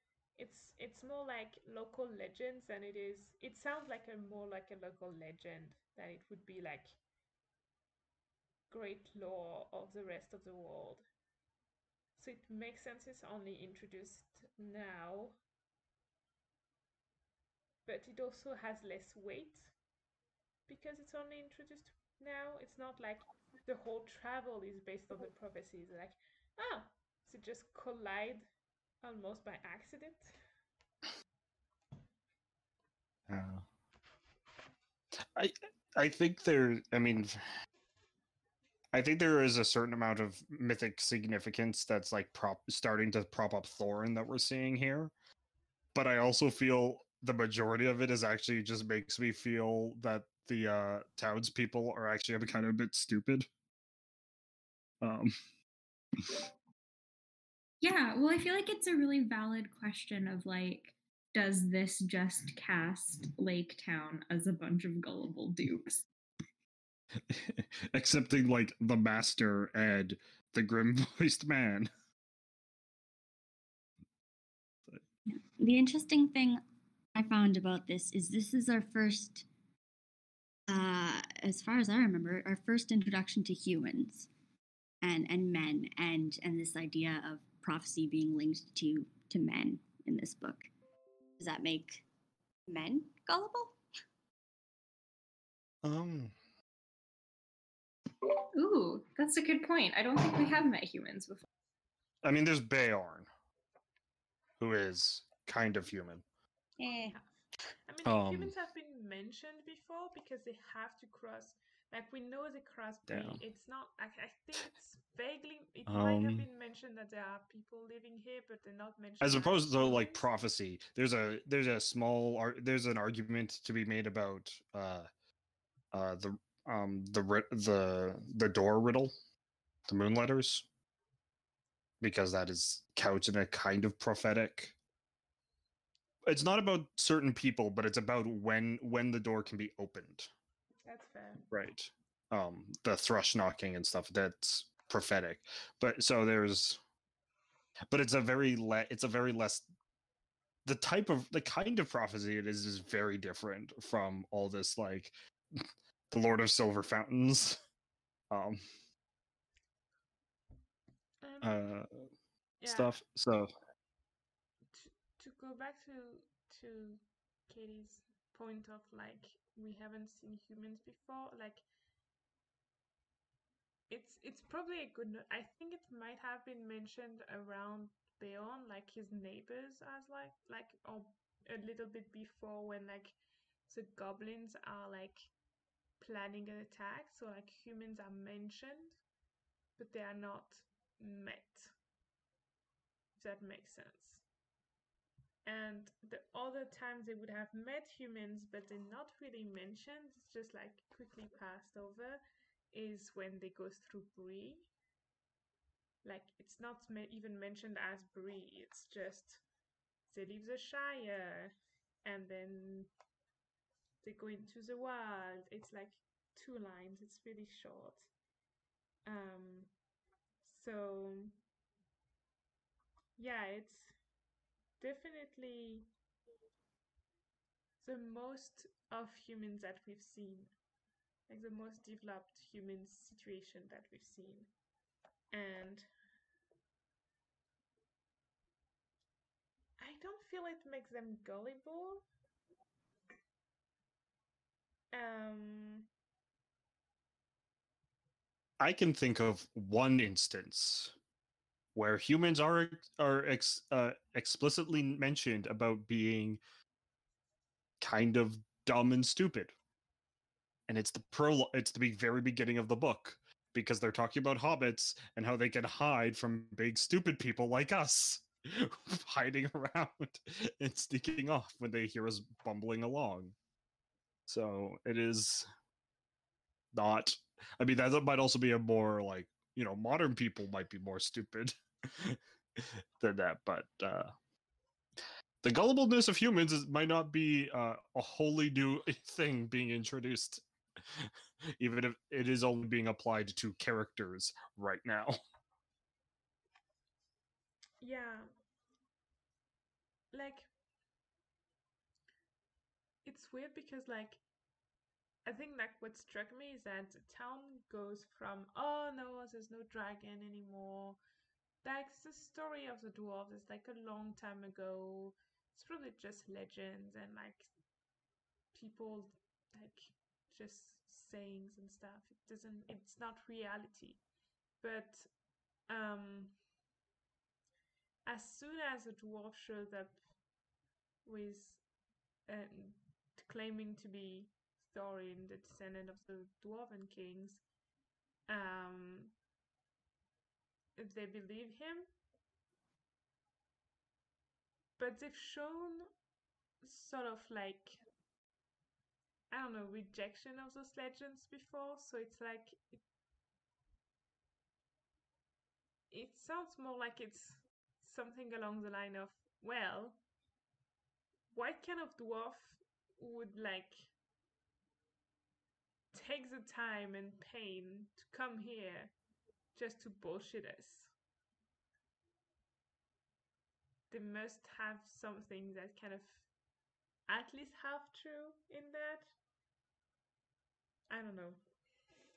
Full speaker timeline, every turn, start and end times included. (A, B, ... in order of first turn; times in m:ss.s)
0:00.4-0:07.0 A
0:08.7-0:11.0 A
0:12.2-0:15.4 A
0:17.8-0:19.8 A
0:20.7-0:28.5 A
0:29.0-0:30.4 A
0:33.3-0:33.6 B
0:35.2-0:37.5 B
0:38.9-0:45.1 B
0:45.9-0:53.5 B
0:55.0-0:55.3 B
0:57.8-1:06.0 C
1:07.3-1:11.9 B
1:15.3-1:16.6 D
1:17.1-1:19.4 D
1:20.7-1:24.3 D
1:25.0-1:30.7 D
1:31.4-1:32.0 D
1:32.7-1:33.8 D
1:35.8-1:36.3 B
1:38.5-1:41.4 C
1:42.2-1:43.3 B
1:44.6-1:46.2 B
1:46.8-1:47.2 D
1:46.9-2:00.3 A
1:48.0-1:48.5 B
1:53.1-1:53.4 B
1:55.9-1:56.5 B
1:59.2-2:05.1 B
2:05.9-2:09.1 B
2:09.9-2:10.7 B
2:12.0-2:14.7 B
2:16.2-2:20.3 B
2:20.8-2:21.5 A
2:21.5-2:26.8 B
2:27.9-2:29.6 B
2:30.6-2:37.6 B
2:38.3-2:38.6 B
2:41.2-2:41.6 A
2:41.4-2:42.0 B
2:42.6-2:43.0 A
2:42.6-2:43.5 B
2:44.7-2:51.6 A
2:53.9-3:03.2 A
3:03.7-3:05.2 A
3:06.0-3:09.0 A
3:09.8-3:11.7 A
3:13.2-3:14.2 A
3:15.4-3:22.2 A
3:22.7-3:24.7 A
3:26.0-3:29.4 A
3:30.1-3:31.5 A
3:32.0-3:32.9 A
3:34.0-3:38.1 A
3:39.0-3:39.7 A
3:40.4-3:41.4 A
3:43.2-3:44.0 A
3:44.8-3:45.9 A
3:47.8-3:50.5 A
3:51.3-3:54.5 A
3:55.3-3:55.9 A
3:59.8-4:02.0 A
4:04.9-4:05.9 A
4:08.6-4:10.9 B
4:11.7-4:16.4 B
4:17.8-4:19.5 B
4:20.7-4:33.3 B
4:34.3-4:35.5 B
4:36.7-4:44.1 B
4:45.4-4:55.2 B
4:57.8-4:58.3 A
5:00.1-5:00.5 A
5:03.0-5:04.2 A
5:05.2-5:11.0 A
5:11.6-5:17.5 A
5:18.5-5:24.0 A
5:24.6-5:25.1 A
5:25.7-5:26.4 A
5:28.0-5:30.0 A
5:31.0-5:31.6 A
5:32.3-5:37.4 A
5:38.3-5:39.1 A
5:40.8-5:41.9 A
5:44.8-5:45.9 A
5:46.6-5:47.8 A
5:49.3-5:52.8 A
5:55.9-6:00.0 A
6:01.3-6:03.9 A
6:05.9-6:08.9 A
6:09.5-6:10.9 A
6:13.9-6:16.2 A
6:17.1-6:19.1 A
6:20.9-6:21.4 A